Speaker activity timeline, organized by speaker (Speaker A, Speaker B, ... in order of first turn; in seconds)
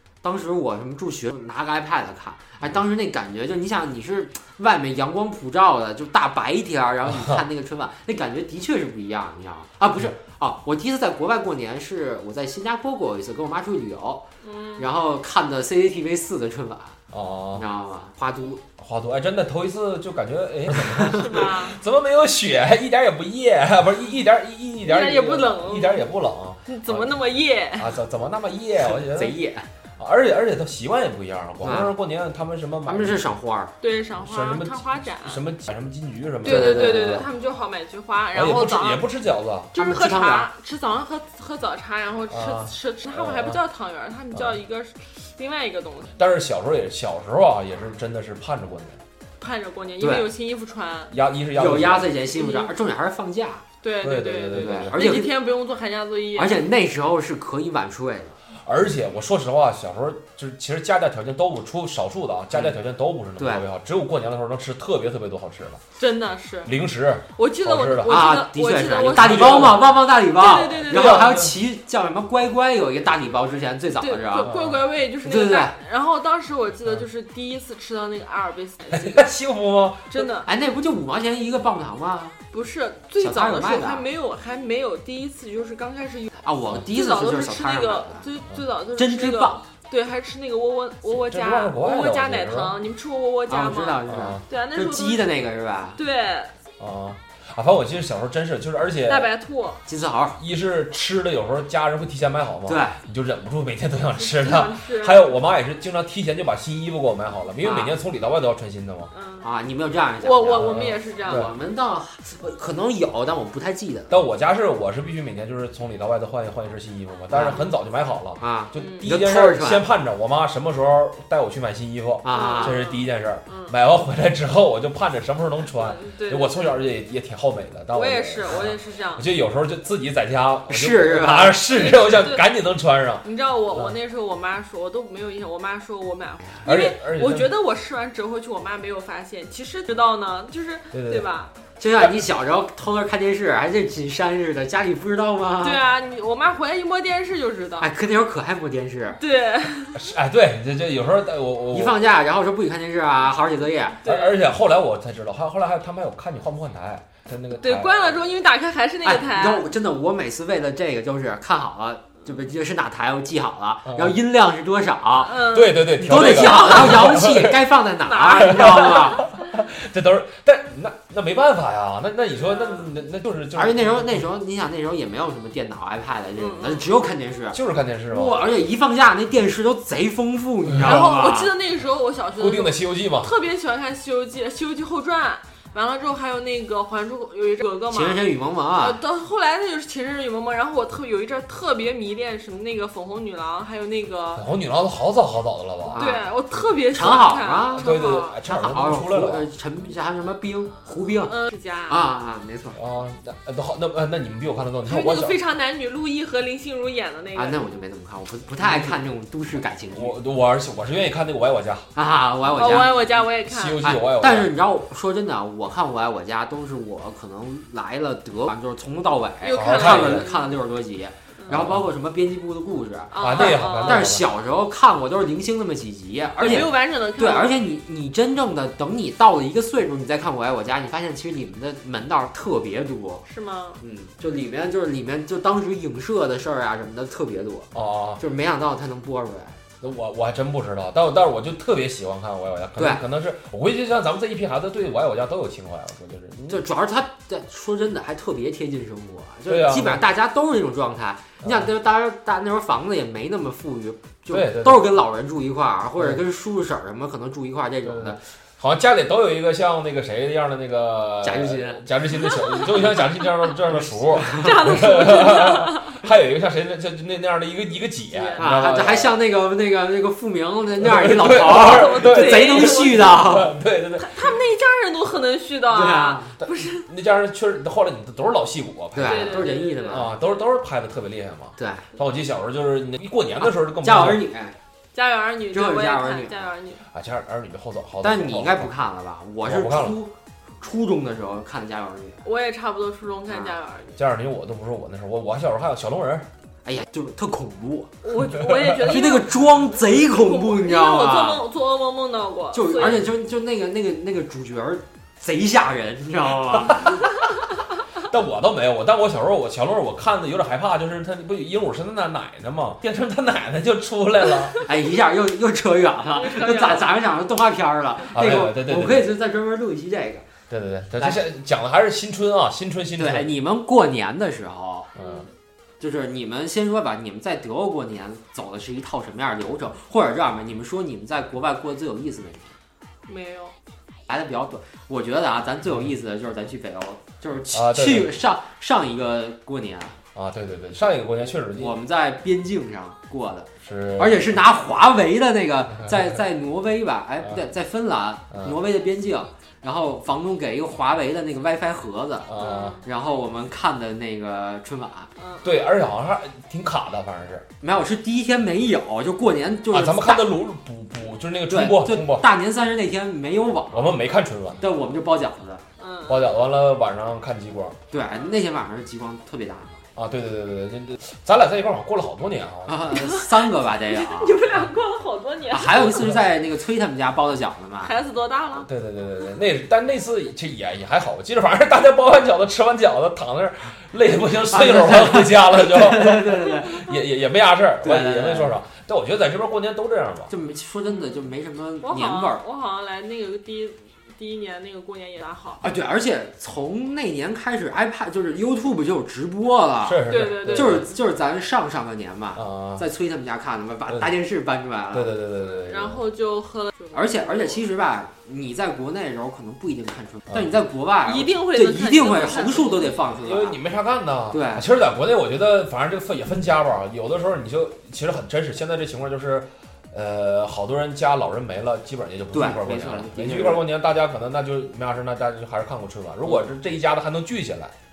Speaker A: 0.2-14.2, 14.8-17.0, 17.5-18.6, 28.8-29.7, 31.6-31.9, 32.9-33.7, 36.4-37.2, 39.8-40.5, 50.0-50.2, 51.5-53.6, 54.5-55.4, 56.4-58.3, 63.4-63.6, 68.0-74.5, 75.2-75.8, 80.2-82.4, 83.2-84.0, 86.4-88.3, 89.0-89.6, 93.5-96.0, 99.8-100.4, 102.7-103.0, 107.6-107.9, 109.4-114.2, 117.3-117.6, 118.4-119.8, 122.2-122.8, 130.7-131.6, 141.8-145.8, 147.8-149.2, 151.7-154.0, 159.0-169.2, 173.6-177.6, 178.1-181.5, 187.9-189.0, 195.9-196.2, 196.9-201.3, 201.9-202.8, 207.4-210.1, 211.9-213.0, 213.8-233.2, 233.8-239.6, 242.8-243.0, 246.5-258.2, 261.2-261.8, 264.1-264.5, 268.4-273.5, 275.7-276.3, 278.9-280.1, 281.6-281.9, 283.4-284.6, 285.5-286.5, 288.0-292.2, 293.3-293.6, 296.6-297.9, 298.8-301.4, 302.5-307.0, 314.6-320.3, 323.0-324.9, 325.8-332.5, 334.1-340.0, 341.6-355.1, 357.6-360.3, 361.5-364.0, 364.6-365.6, 367.9-369.8, 372.6-374.4, 375.5-377.9, 384.5-386.8, 387.8-388.5, 390.3-392.4, 395.6-405.1, 406.9-413.6, 414.3-414.7, 422.3-423.6
Speaker B: 7.1-7.4, 17.1-17.6, 18.8-29.4, 30.0-33.2, 34.2-37.3, 38.3-39.7, 42.3-43.6, 44.3-44.6, 46.2-49.0, 51.1-52.1, 54.0-55.0, 58.6-65.8, 66.6-68.3, 69.1-69.9, 70.8-71.5, 74.4-74.8, 78.9-80.1, 91.2-92.8, 94.1-94.4, 96.8-99.3, 100.4-109.1, 110.6-111.5, 114.1-133.9, 136.6-137.5, 140.9-141.3, 149.9-152.0, 154.1-158.2, 163.9-164.2, 165.5-167.7, 168.4-174.2, 177.5-178.4, 180.7-180.9, 182.4-183.3, 194.4-196.0, 197.8-199.5, 202.8-205.4, 208.6-208.9, 209.9-211.9, 213.0-214.5, 219.5-220.3, 221.5-221.8, 223.2-224.2, 237.7-238.2, 239.8-246.6, 249.5-250.0, 254.3-255.0, 257.8-269.1, 270.8-274.3, 276.4-284.2, 286.9-288.7, 289.4-290.0, 293.9-296.3, 298.4-298.9, 306.5-307.0, 308.0-314.6, 318.1-319.1, 320.5-323.3, 325.0-325.2, 337.5-338.1, 340.1-341.8, 343.6-344.3, 352.3-352.8, 355.4-357.4, 359.7-362.3, 363.7-364.6, 366.1-367.8, 370.0-372.9, 378.6-390.3, 399.8-400.9, 402.4-402.8, 404.9-406.0, 413.2-427.7
Speaker C: 14.4-14.9, 21.1-21.8, 24.8-26.0, 26.7-27.9, 33.8-35.4, 36.4-39.1, 39.7-46.1, 49.4-51.1, 52.3-52.7, 53.8-56.6, 66.0-66.7, 67.3-71.4, 74.0-79.2, 80.1-80.5, 82.5-95.4, 96.0-96.5, 99.1-99.8, 104.1-105.3, 109.1-109.5, 110.2-111.5, 118.8-119.1, 122.3-123.8, 125.7-126.5, 127.9-129.2, 131.7-132.5, 133.2-141.5, 145.6-147.9, 149.2-150.1, 154.0-154.4, 157.5-159.7, 165.2-167.2, 168.1-169.3, 172.4-172.9, 176.4-176.9, 180.8-188.2, 188.8-194.4, 196.0-198.4, 201.3-202.0, 204.9-207.7, 212.6-213.9, 219.4-220.5, 223.1-224.1, 226.4-227.6, 233.2-233.8, 262.3-263.2, 264.4-266.0, 268.1-268.5, 271.4-273.2, 274.0-276.9, 279.1-280.3, 284.9-286.8, 292.2-294.0, 298.0-303.1, 316.1-316.9, 325.0-325.3, 333.1-333.5, 352.4-352.9, 355.2-355.6, 365.8-366.2, 373.0-376.1, 377.8-378.7, 391.8-395.6, 400.1-400.9, 405.5-407.6, 411.0-413.0